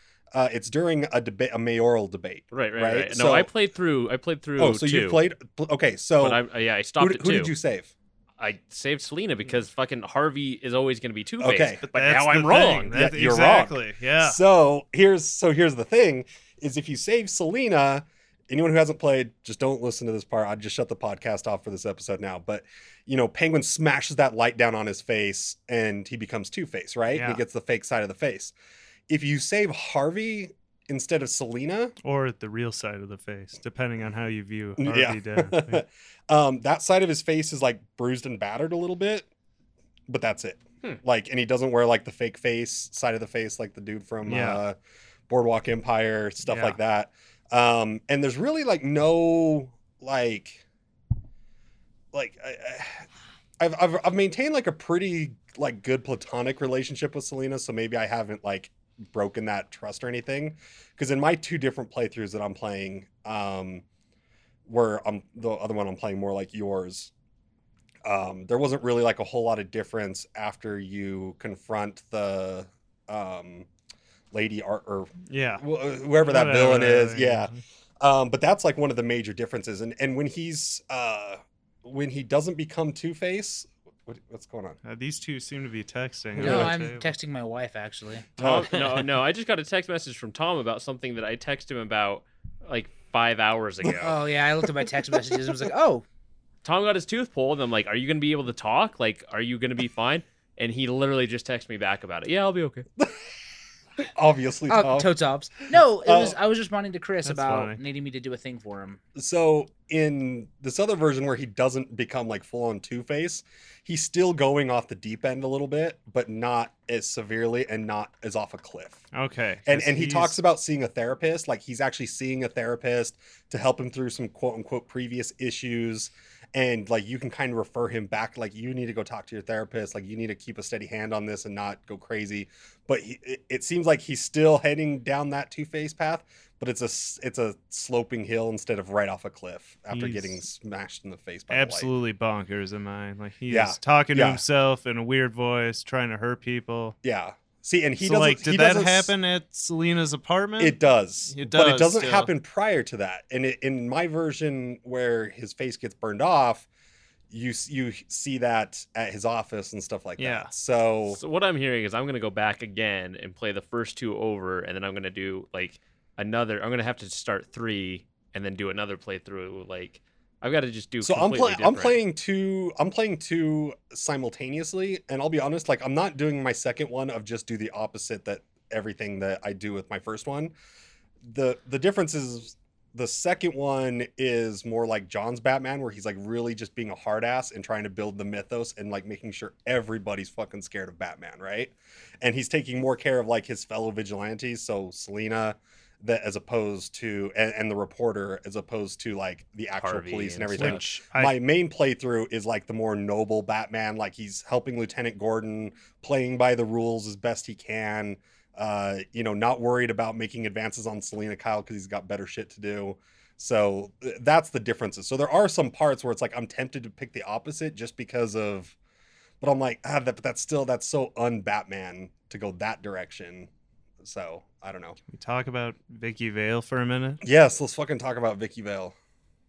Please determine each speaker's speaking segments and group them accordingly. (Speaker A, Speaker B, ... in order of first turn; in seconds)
Speaker A: 0.3-3.5, 4.6-6.4, 7.0-7.9, 11.4-28.5, 29.1-31.9, 34.8-39.3, 40.1-44.8, 45.3-50.6, 52.1-53.1, 53.6-63.8, 64.7-67.1, 68.0-73.7, 74.3-84.8, 86.4-86.7, 88.4-88.8, 104.0-105.1, 105.7-106.4, 109.1-119.0, 119.7-141.9, 143.5-144.4, 147.0-149.1, 150.6-156.7, 157.3-161.2, 171.0-180.5, 181.2-218.8, 219.4-223.5, 224.0-225.0, 227.2-228.9
Speaker B: 2.5-5.2, 6.2-7.5, 8.4-13.0, 88.4-94.2, 96.6-102.8, 161.1-172.0, 199.8-200.9
Speaker C: 11.8-14.4, 27.1-27.4, 32.0-35.8, 44.2-44.6, 46.4-46.8, 75.3-75.6, 76.2-77.6, 84.8-87.1, 107.2-107.8, 119.1-120.4, 139.9-140.4, 141.5-147.0, 148.0-150.8, 151.3-152.3, 160.2-160.5, 200.5-201.4, 225.1-227.2
Speaker D: 86.4-88.3, 94.0-96.0, 104.7-109.0